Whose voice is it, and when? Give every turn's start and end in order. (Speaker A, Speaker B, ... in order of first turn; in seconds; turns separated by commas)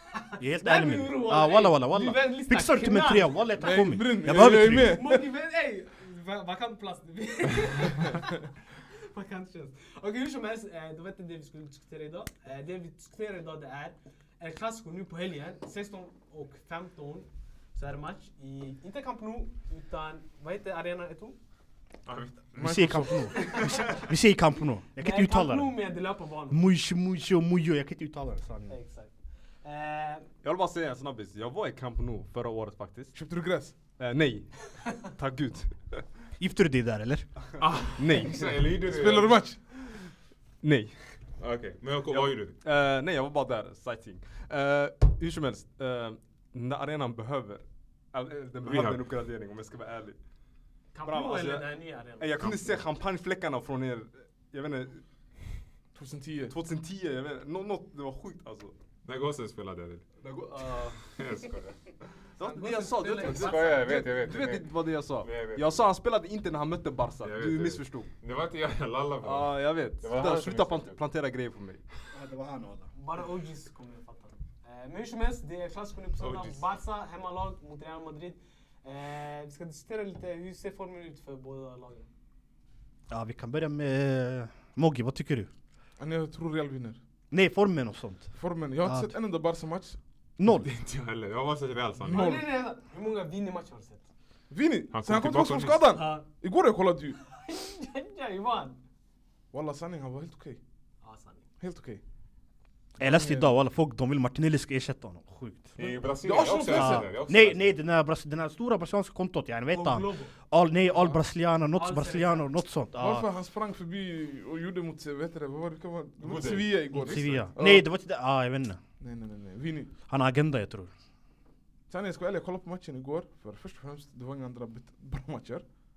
Speaker A: 0.1-3.6, Speaker B: 0.4-5.0, Speaker C: 3.5-5.2, Speaker A: 4.6-21.4, Speaker D: 22.1-22.9, Speaker C: 22.6-23.5, Speaker B: 22.6-25.8, Speaker A: 23.3-24.0, Speaker A: 25.0-26.6, Speaker B: 26.5-28.8, Speaker A: 28.7-29.1, Speaker A: 29.6-30.3, Speaker E: 30.4-33.1, Speaker C: 33.1-33.8, Speaker E: 34.0-36.0, Speaker B: 36.4-37.3, Speaker D: 37.6-39.4, Speaker E: 38.0-38.7, Speaker C: 38.8-39.6, Speaker E: 40.6-41.0, Speaker D: 41.4-42.6, Speaker E: 42.1-50.2, Speaker D: 48.6-49.0, Speaker A: 50.9-52.5, Speaker E: 51.0-55.0, Speaker D: 52.4-52.8, Speaker C: 55.9-56.5, Speaker E: 56.5-58.7, Speaker D: 59.0-60.0, Speaker E: 60.2-61.0, Speaker D: 61.1-61.8, Speaker E: 62.4-68.1, Speaker A: 62.4-64.0, Speaker D: 63.1-65.8, Speaker D: 67.2-71.0, Speaker E: 69.2-71.8, Speaker B: 72.1-72.9, Speaker A: 72.9-82.1, Speaker D: 76.2-76.6, Speaker B: 83.1-85.5, Speaker C: 86.0-87.0, Speaker B: 87.3-89.1, Speaker C: 88.3-90.0, Speaker B: 90.4-90.7, Speaker D: 90.5-92.3, Speaker C: 92.0-92.5, Speaker A: 92.0-94.0, Speaker C: 94.5-97.2, Speaker D: 94.9-95.8, Speaker A: 95.9-96.2, Speaker A: 97.2-98.8, Speaker C: 99.5-100.6, Speaker A: 101.0-101.4, Speaker C: 101.6-102.0, Speaker C: 103.0-103.5, Speaker B: 103.0-105.8, Speaker D: 105.8-107.8, Speaker C: 106.2-107.1, Speaker B: 106.7-113.2, Speaker A: 109.7-110.3, Speaker A: 111.7-112.5, Speaker C: 113.0-117.8, Speaker D: 116.2-117.4, Speaker B: 116.9-118.8, Speaker C: 119.0-119.9, Speaker B: 120.1-120.9, Speaker C: 121.9-125.6